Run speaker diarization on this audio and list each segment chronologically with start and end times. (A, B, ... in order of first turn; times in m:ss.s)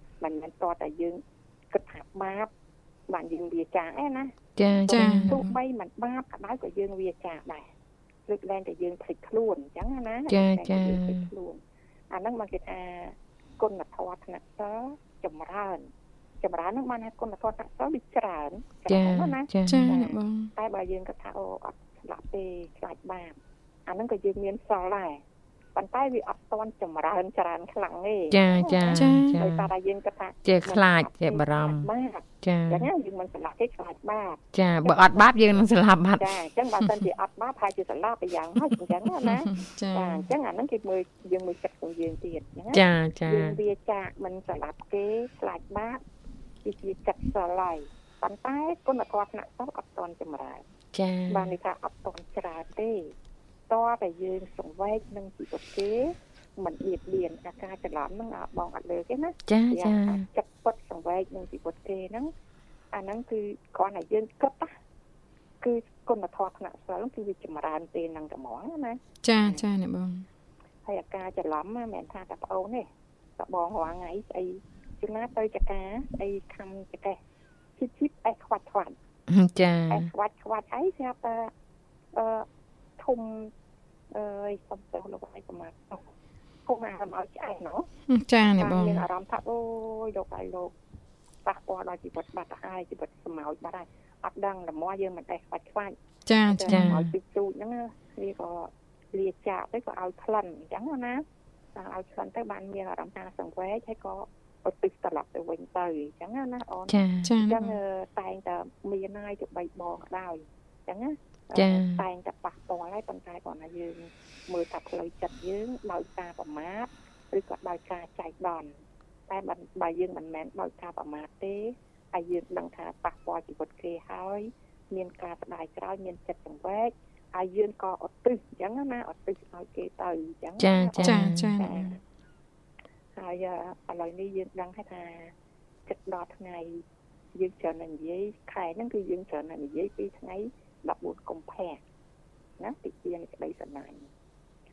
0:00.2-0:02.5 A
0:03.1-0:07.7 A
0:04.6-0:05.4 B
0:04.9-0:05.5 C
0:08.3-0:15.9 A
0:10.3-0:11.3 B
0:16.4-0:25.2 A
0:18.9-0:20.0 B
0:19.7-0:20.5 C
0:25.7-0:35.6 A
0:28.3-0:29.7 B
0:28.9-0:29.4 C
0:30.4-0:31.9 B
0:32.4-0:32.9 B
0:34.5-0:36.3 B
0:36.2-0:46.0 A
0:39.5-0:40.2 C
0:42.7-0:43.6 B
0:46.6-0:50.6 A
0:50.9-0:51.6 B
0:51.3-0:53.1 A
0:53.7-1:02.3 A
0:59.5-1:00.2 B
1:02.9-1:04.7 A
1:05.6-1:09.6 A
1:09.2-1:10.2 C
1:10.8-1:12.9 A
1:13.4-1:17.2 A
1:17.8-1:19.0 A
1:19.3-1:20.1 B
1:19.9-1:21.5 A
1:22.1-1:22.5 A
1:23.0-1:23.5 A
1:24.1-1:26.1 A
1:26.6-1:27.9 A
1:28.1-1:29.0 C
1:28.5-1:30.7 A
1:31.4-1:58.7 A
1:36.2-1:37.0 C
1:36.7-1:37.1 B
1:46.9-1:47.3 B
1:47.2-1:47.8 C
1:51.5-1:52.0 B
1:59.3-2:12.0 A
2:10.6-2:11.5 B
2:11.0-2:11.9 C
2:13.1-2:15.3 A
2:15.8-2:16.8 A
2:17.3-2:21.8 A
2:22.6-2:24.1 A